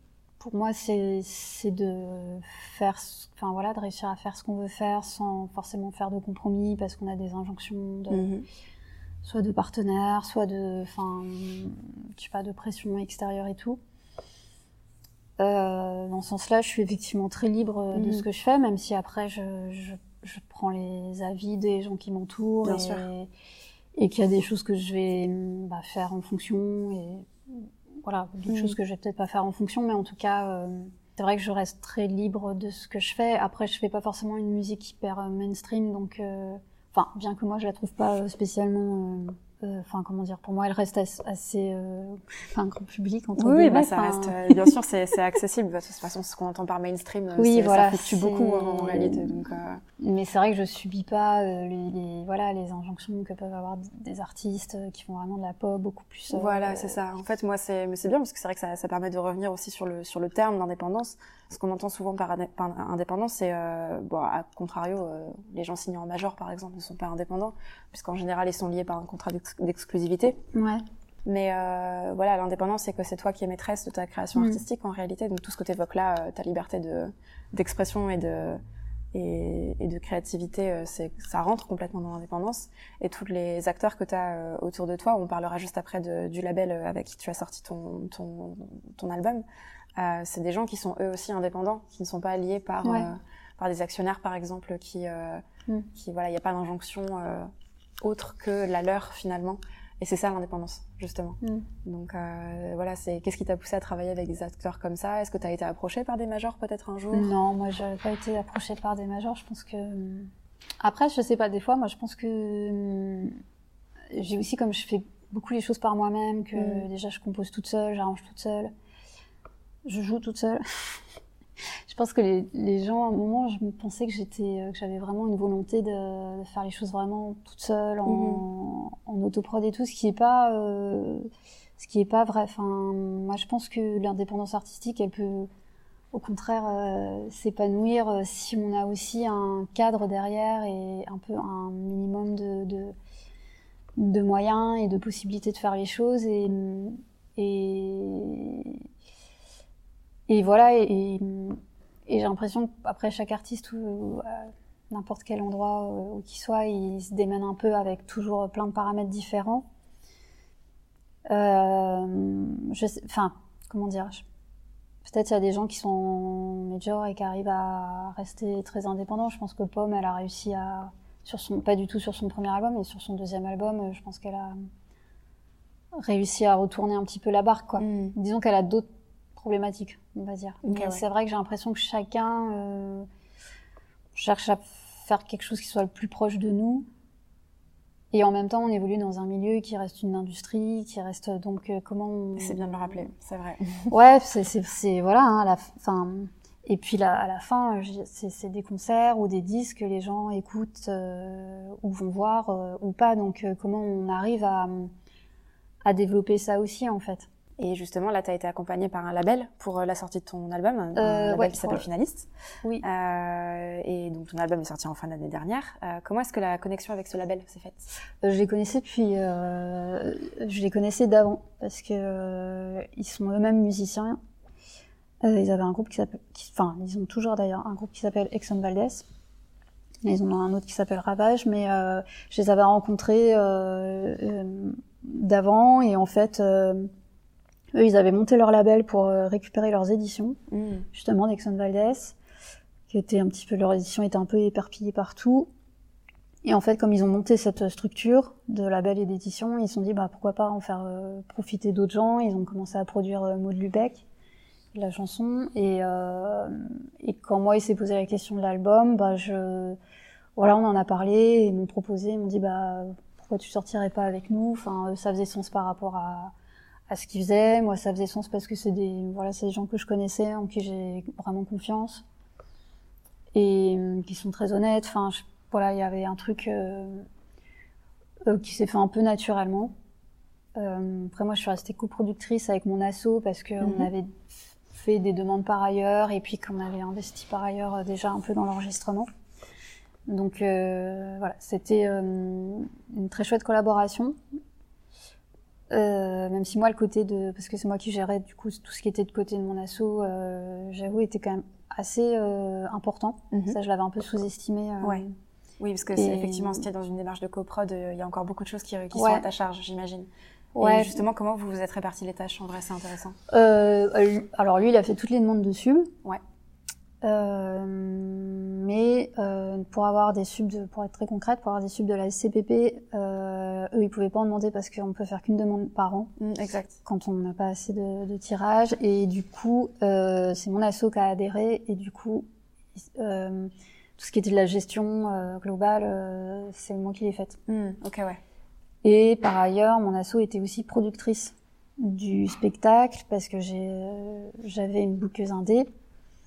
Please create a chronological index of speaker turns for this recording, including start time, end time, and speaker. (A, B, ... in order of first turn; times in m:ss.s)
0:00.4-0:08.3 A
0:08.1-0:08.4 B
0:09.2-0:13.8 A
0:15.4-0:23.3 A
0:17.9-0:18.2 B
0:22.6-0:23.0 B
0:24.0-0:44.7 A
0:28.5-0:28.8 B
0:43.4-0:49.8 B
0:47.4-0:49.3 A
0:50.0-0:57.0 A
0:56.3-1:10.4 B
1:10.5-1:10.8 A
1:11.2-1:18.6 B
1:14.4-1:14.6 A
1:19.1-1:29.4 B
1:30.0-1:37.5 B
1:32.8-1:33.1 A
1:38.0-1:47.3 B
1:47.1-1:53.4 A
1:54.1-1:58.7 A
1:56.6-1:56.8 B
1:59.8-2:01.0 A
2:01.9-2:15.5 A
2:08.1-2:08.4 B
2:16.1-2:22.9 A
2:24.0-2:28.8 A
2:30.3-2:39.6 A
2:41.3-2:44.2 A
2:45.0-2:54.6 A
2:56.0-3:03.1 A
2:57.8-2:58.1 B
3:00.6-3:01.0 B
3:04.2-3:06.9 A
3:08.1-3:13.0 A
3:12.4-3:13.9 B
3:13.9-3:24.9 A
3:25.8-3:27.3 A
3:27.6-3:32.3 B
3:30.9-3:31.8 A
3:32.8-3:37.9 B
3:38.2-3:44.2 A
3:45.2-3:49.0 A
3:50.0-3:56.9 A
3:57.7-4:00.4 A
4:00.5-4:00.8 B
4:00.9-4:02.2 A
4:02.9-4:05.5 A
4:06.4-4:14.0 A
4:14.7-4:19.8 A
4:20.4-4:26.3 A
4:26.9-4:32.0 A
4:33.3-4:37.1 A
4:38.3-4:39.7 A
4:40.6-4:44.1 A
4:43.6-4:43.9 B
4:44.7-4:49.1 A
4:50.1-4:54.1 A
4:55.7-5:05.1 A
5:05.6-5:13.2 B
5:05.9-5:06.7 A
5:08.9-5:09.3 A
5:10.5-5:11.0 A
5:13.3-5:15.9 A
5:17.0-5:26.1 A
5:26.2-5:26.8 B
5:26.8-5:32.2 A
5:32.8-5:37.4 A
5:37.5-5:38.2 B
5:38.8-5:45.7 A